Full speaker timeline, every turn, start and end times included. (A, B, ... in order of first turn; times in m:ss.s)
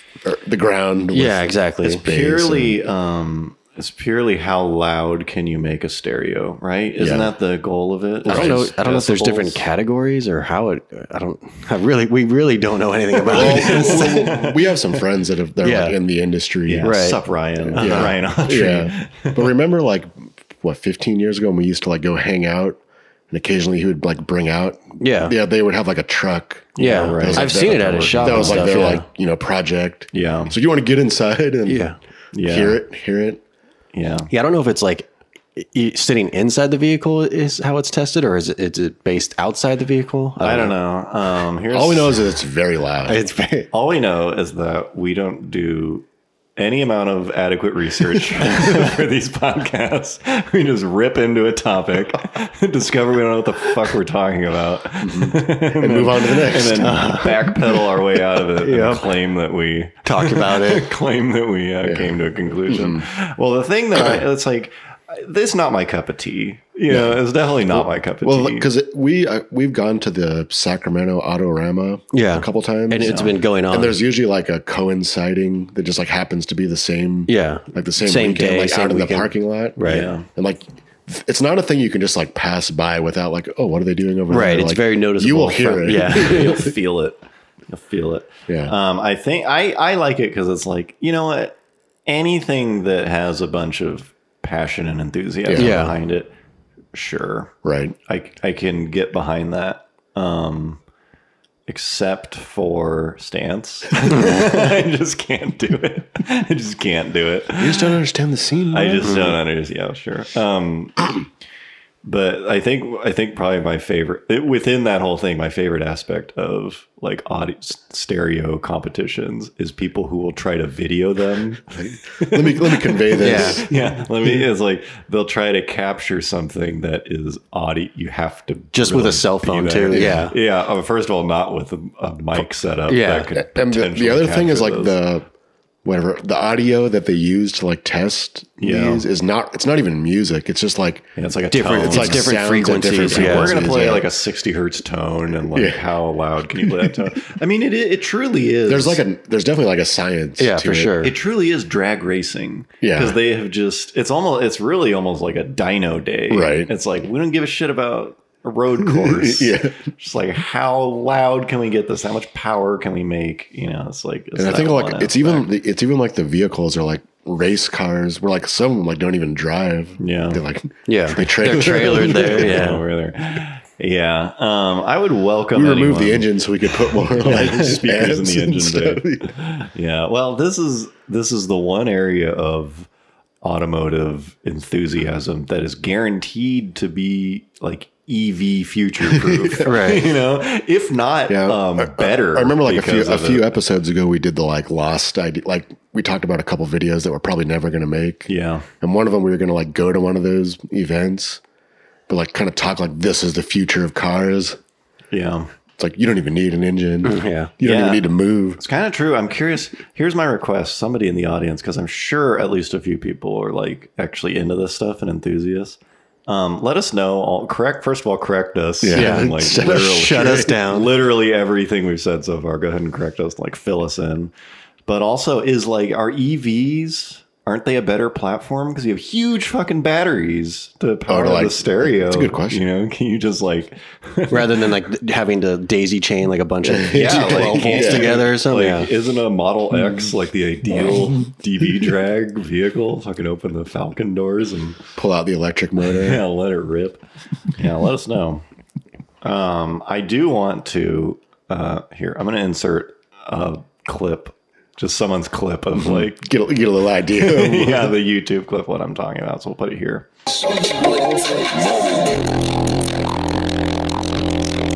0:00.2-0:02.8 A
0:01.1-0:02.0 B
0:02.0-0:09.6 C
0:07.0-0:07.3 A
0:08.2-0:08.7 A
0:08.3-0:14.3 B
0:13.2-0:15.0 C
0:13.3-0:17.0 A
0:15.6-0:16.0 B
0:16.7-0:19.6 C
0:16.8-0:17.2 B
0:17.7-0:22.8 A
0:17.7-0:18.2 B
0:23.3-0:31.9 A
0:25.0-0:25.4 B
0:26.8-0:28.7 C
0:26.8-0:29.0 B
0:30.1-0:30.5 C
0:31.7-0:32.0 B
0:32.3-0:32.8 C
0:32.4-0:33.4 A
0:33.9-0:34.3 C
0:34.3-0:40.7 B
0:40.4-0:42.3 C
0:41.7-0:43.2 A
0:43.1-0:43.7 B
0:43.7-0:46.1 C
0:46.6-1:08.7 C
0:55.0-0:57.3 A
0:56.8-0:57.4 B
0:58.6-0:59.1 B
1:00.0-1:00.9 B
1:01.8-1:03.1 A
1:04.0-1:04.2 A
1:06.9-1:26.7 A
1:12.1-1:14.0 B
1:13.0-1:13.3 C
1:17.3-1:20.1 B
1:19.8-1:20.3 C
1:24.3-1:26.6 B
1:26.0-1:36.3 C
1:28.5-1:28.8 A
1:35.5-1:35.9 A
1:35.6-1:35.9 B
1:36.9-1:40.8 C
1:37.6-1:38.0 A
1:41.7-1:48.0 C
1:47.6-1:49.4 A
1:48.7-1:51.2 C
1:52.0-2:15.0 C
2:01.8-2:03.8 A
2:03.2-2:03.6 B
2:08.7-2:10.4 B
2:09.9-2:10.3 A
2:12.9-2:13.3 B
2:13.4-2:15.3 A
2:15.8-2:21.1 A
2:18.6-2:19.0 C
2:21.2-2:29.0 C
2:21.5-2:23.6 B
2:21.8-2:24.1 A
2:25.5-2:25.8 A
2:26.7-2:27.0 A
2:28.7-2:31.0 A
2:30.4-2:31.1 B
2:31.0-2:45.5 C
2:32.8-2:33.2 A
2:36.3-2:36.7 A
2:38.8-2:39.8 A
2:44.4-2:52.7 A
2:50.0-2:50.4 C
2:50.9-2:52.8 B
2:51.6-2:56.3 C
2:55.5-2:59.4 A
2:56.9-3:02.9 C
3:03.4-3:13.5 C
3:09.0-3:09.5 A
3:09.6-3:10.0 B
3:11.3-3:21.4 A
3:18.3-3:18.7 C
3:22.1-3:24.6 A
3:25.1-3:25.5 C
3:25.8-3:28.6 A
3:27.0-3:27.5 B
3:27.6-3:44.3 C
3:38.8-3:40.5 A
3:38.9-3:40.9 B
3:44.9-3:54.7 C
3:51.1-3:52.6 A
3:54.3-3:58.9 B
3:56.6-3:58.2 A
3:56.9-4:04.8 C
4:05.0-4:06.2 A
4:05.9-4:07.0 C
4:07.6-4:08.4 C
4:09.2-4:16.3 C
4:15.7-4:18.0 A
4:17.2-4:20.1 C